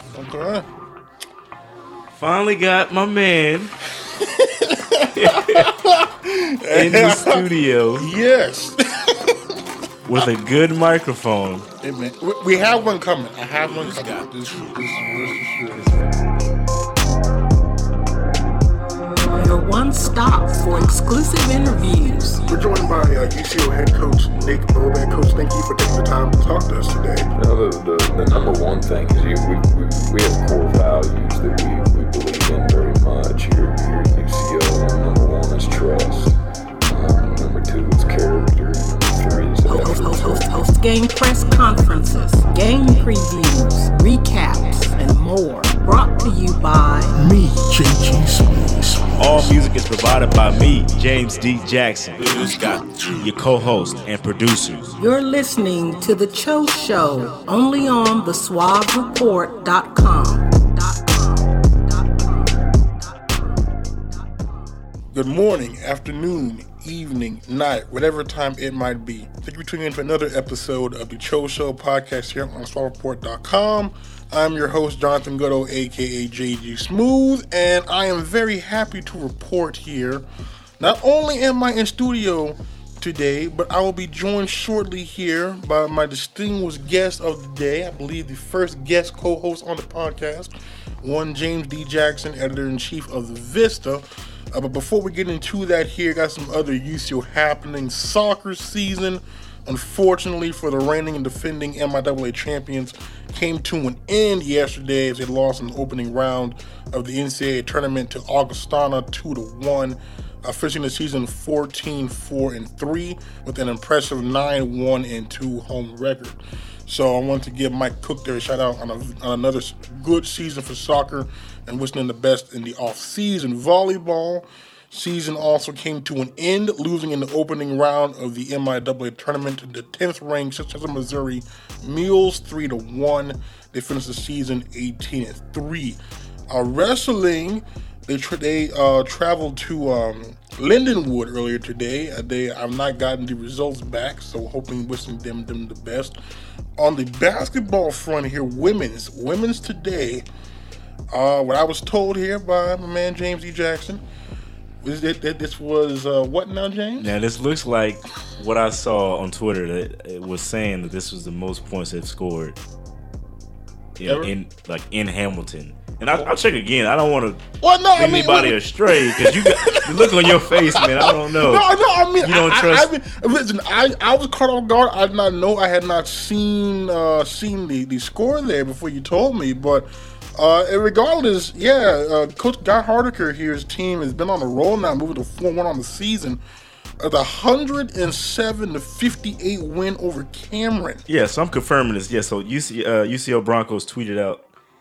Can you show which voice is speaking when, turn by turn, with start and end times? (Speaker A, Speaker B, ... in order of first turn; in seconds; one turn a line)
Speaker A: 0.1-0.7
Speaker B: 2.1-3.8
Speaker A: 3.9-9.6
Speaker B: 5.1-5.7
Speaker B: 6.7-8.1
Speaker B: 10.1-11.7
Speaker A: 11.8-15.8
Speaker B: 13.7-16.2
Speaker C: 19.1-22.5
Speaker A: 22.5-27.3
Speaker D: 27.4-36.3
Speaker D: 36.9-40.6
Speaker C: 39.6-47.2
Speaker A: 47.1-49.6
Speaker B: 49.2-54.9
Speaker C: 55.0-64.5
Speaker A: 65.1-80.2
Speaker A: 80.8-146.2
Speaker A: 146.8-150.2
Speaker A: 151.1-154.0
Speaker A: 154.8-157.1
Speaker B: 157.0-162.6
Speaker B: 164.0-171.7
Speaker A: 164.0-164.3
Speaker A: 167.6-186.4
Speaker B: 172.2-172.9
Speaker A: 187.0-191.0
Speaker B: 191.1-194.4